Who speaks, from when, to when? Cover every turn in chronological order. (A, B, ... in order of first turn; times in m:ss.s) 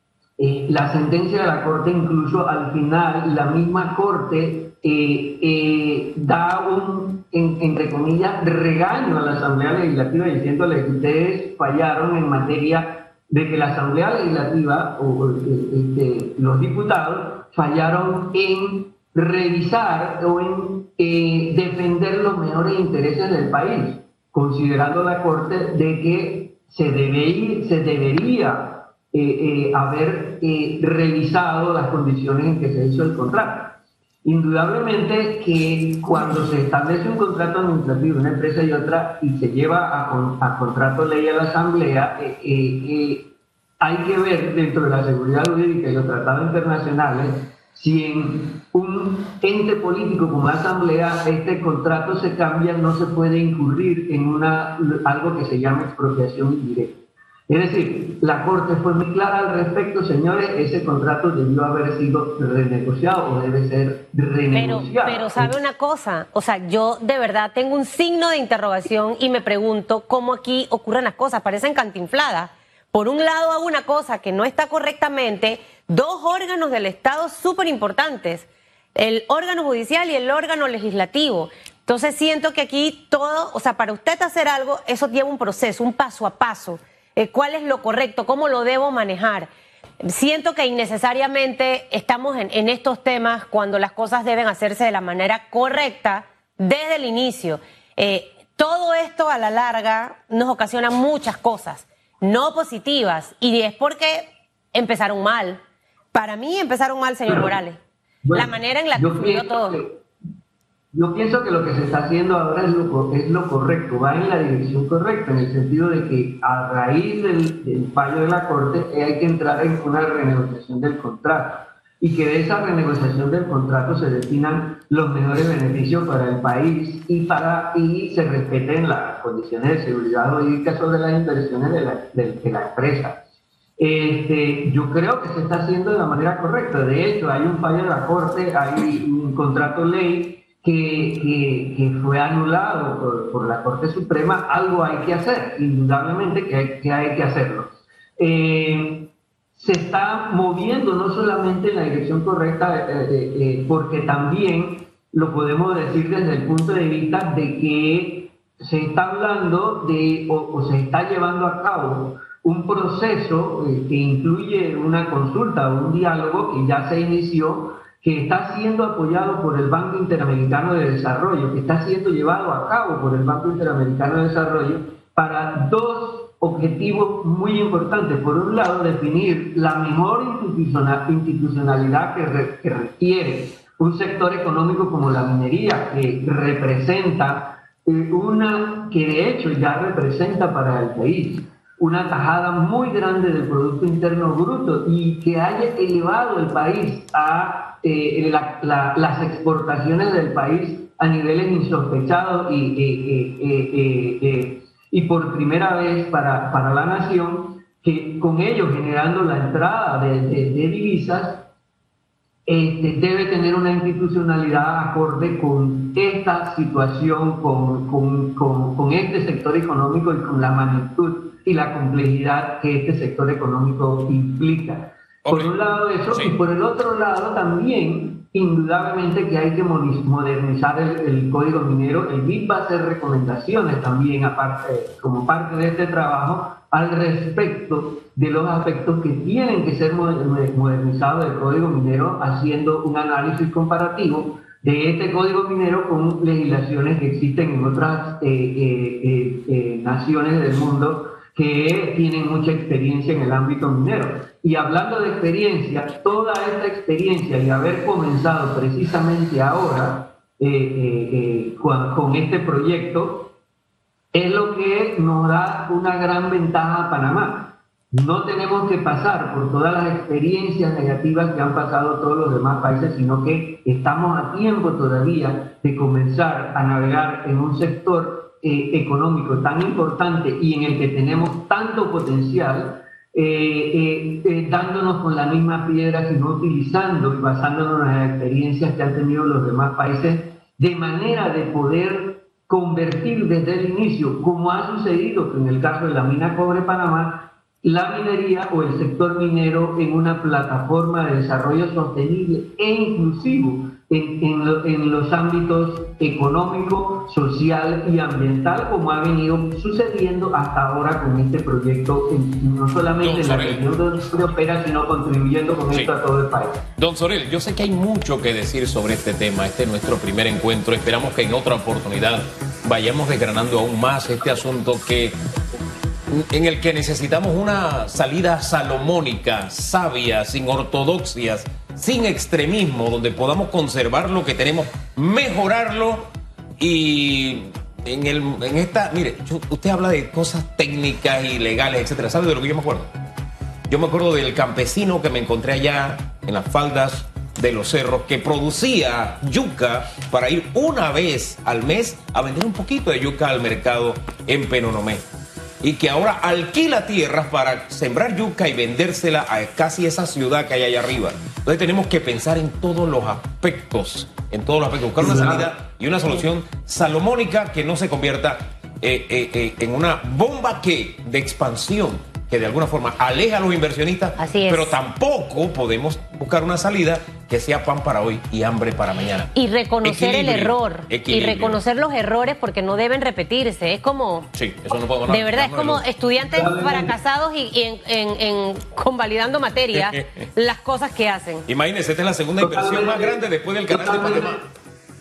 0:00.4-0:43.3 A
0:43.8-1:05.6 A
1:04.5-1:29.5 B
1:30.0-1:45.6 B
1:46.1-1:47.8 B
1:48.2-1:50.0 A
1:48.3-1:49.8 B
1:50.9-2:13.2 A
2:13.8-3:31.4 A
3:32.4-4:23.3 A
3:45.2-3:45.5 C
4:24.1-5:16.6 A
5:13.0-5:13.6 C
5:16.8-5:25.2 C
5:26.1-5:36.0 C
5:36.6-5:42.9 C
5:43.7-5:55.0 C
5:55.6-6:19.3 C
6:05.0-6:05.5 A
6:14.2-6:14.7 B
6:19.3-6:24.3 B
6:19.8-6:21.6 C
6:24.3-6:25.8 C
6:25.1-6:31.5 B
6:26.2-6:26.9 A
6:29.7-6:30.0 C
6:31.5-6:34.4 C
6:32.4-6:34.4 A